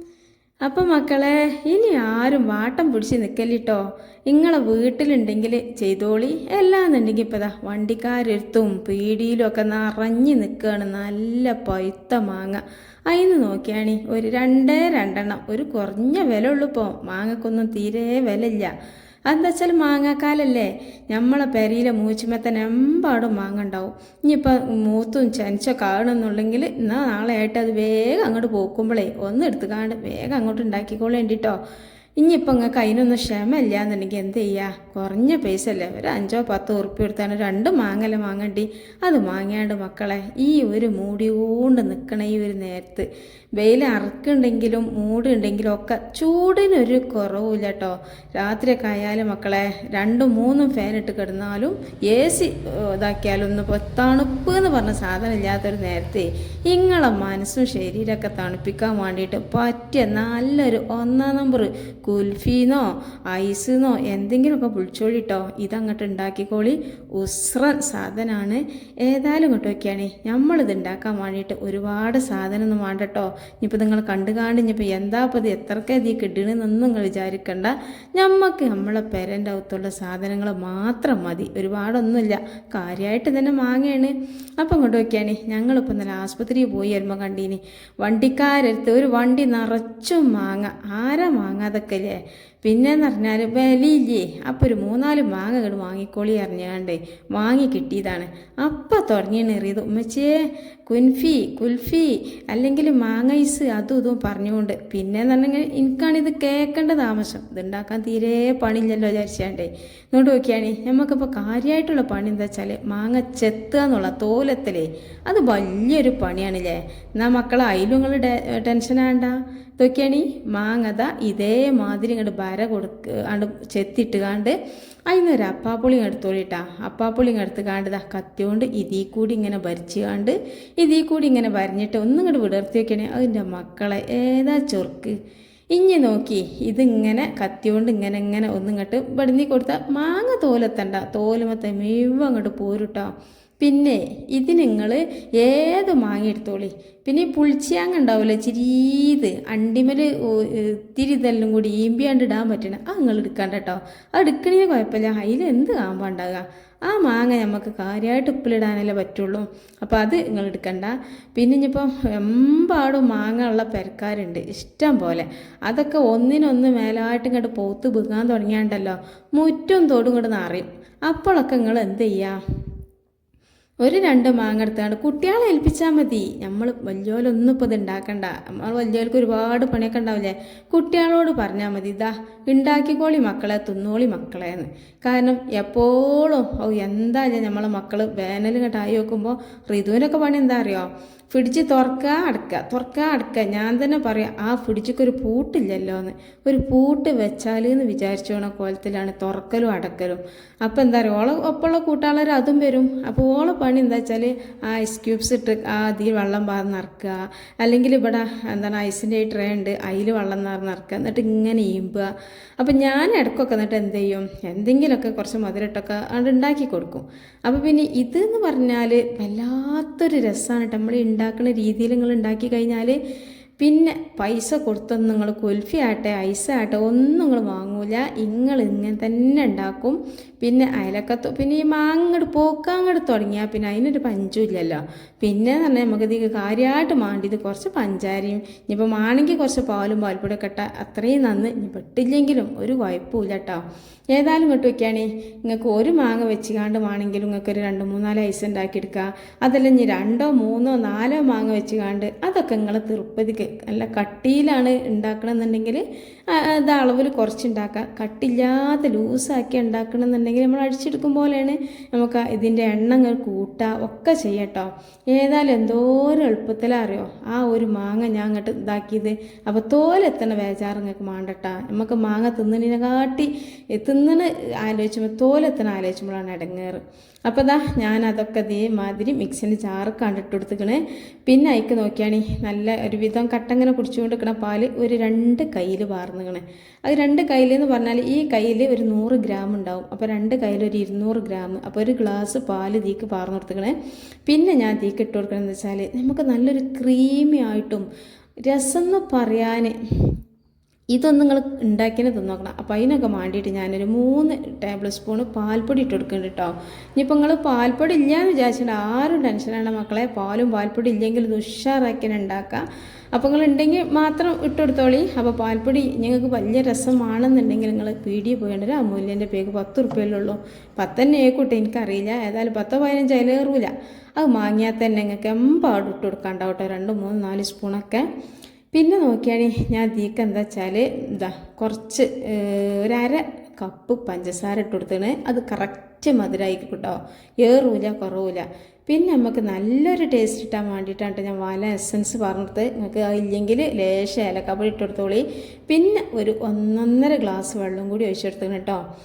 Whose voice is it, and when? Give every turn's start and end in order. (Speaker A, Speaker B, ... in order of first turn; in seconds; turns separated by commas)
Speaker A: 0.6-18.7, Speaker A: 19.3-31.6, Speaker A: 32.2-124.5, Speaker A: 125.1-135.2, Speaker A: 135.7-143.1, Speaker A: 143.6-172.3, Speaker A: 173.8-223.0, Speaker A: 223.6-293.7, Speaker A: 294.2-297.9, Speaker A: 298.5-300.1, Speaker A: 300.9-328.1, Speaker A: 328.7-348.8